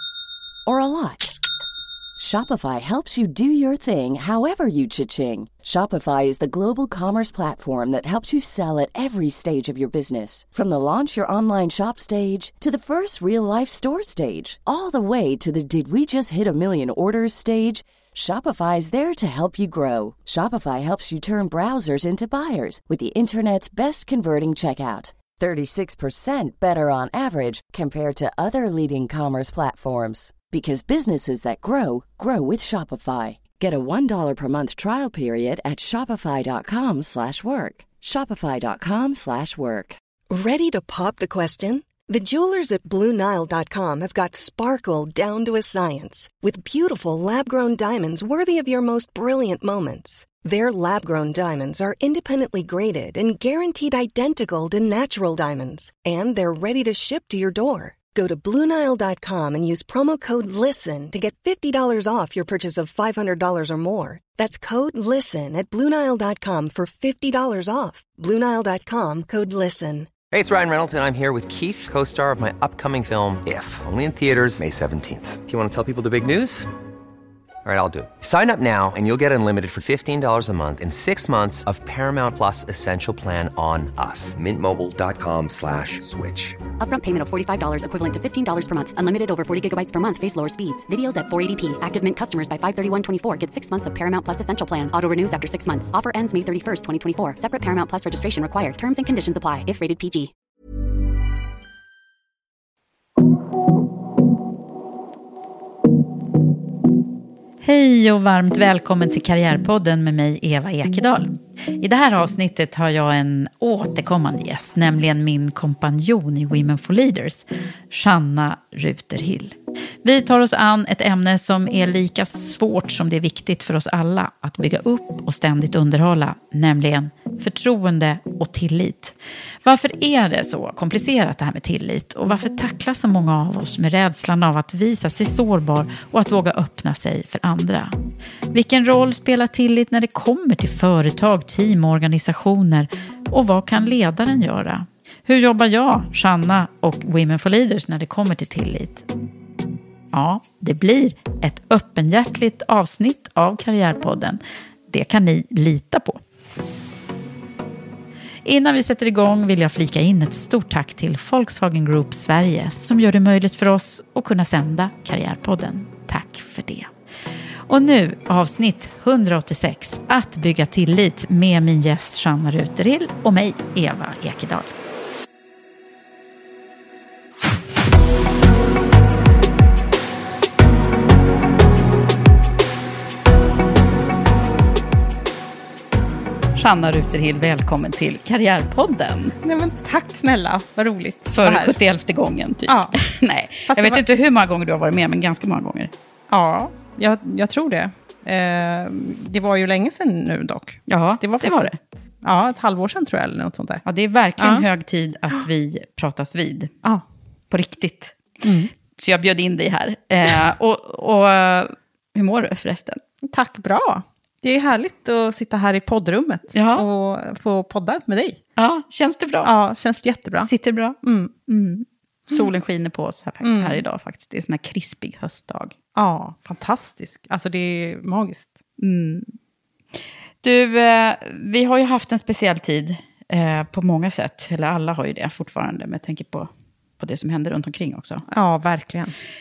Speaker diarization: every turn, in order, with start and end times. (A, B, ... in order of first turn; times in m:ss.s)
0:00.7-0:01.3 A
0:02.2-0:40.0 A
0:40.3-1:10.1 B
1:10.3-1:16.7 C
1:17.6-1:26.6 C
1:26.8-1:40.3 D
1:47.6-2:18.0 E
2:18.5-2:29.1 E
2:30.1-2:36.2 E
2:38.4-2:46.9 E
2:47.7-2:54.8 E
3:06.6-3:09.4 E
3:09.4-3:11.8 F
3:11.3-3:15.9 E
3:12.7-3:13.0 F
3:13.6-3:14.0 F
3:16.3-3:23.8 F
3:20.9-3:21.8 E
3:23.8-3:26.7 E
3:24.4-3:24.6 F
3:27.5-3:28.2 E
3:28.4-3:28.7 F
3:29.0-3:33.0 E
3:33.2-3:38.4 F
3:36.5-3:36.9 E
3:38.6-3:39.5 E
3:39.4-3:40.5 F
3:40.4-3:45.8 E
3:41.0-3:41.3 F
3:43.4-3:43.8 F
3:46.0-3:48.6 F
3:48.8-3:49.3 E
3:50.4-3:58.2 E
3:58.3-3:59.2 F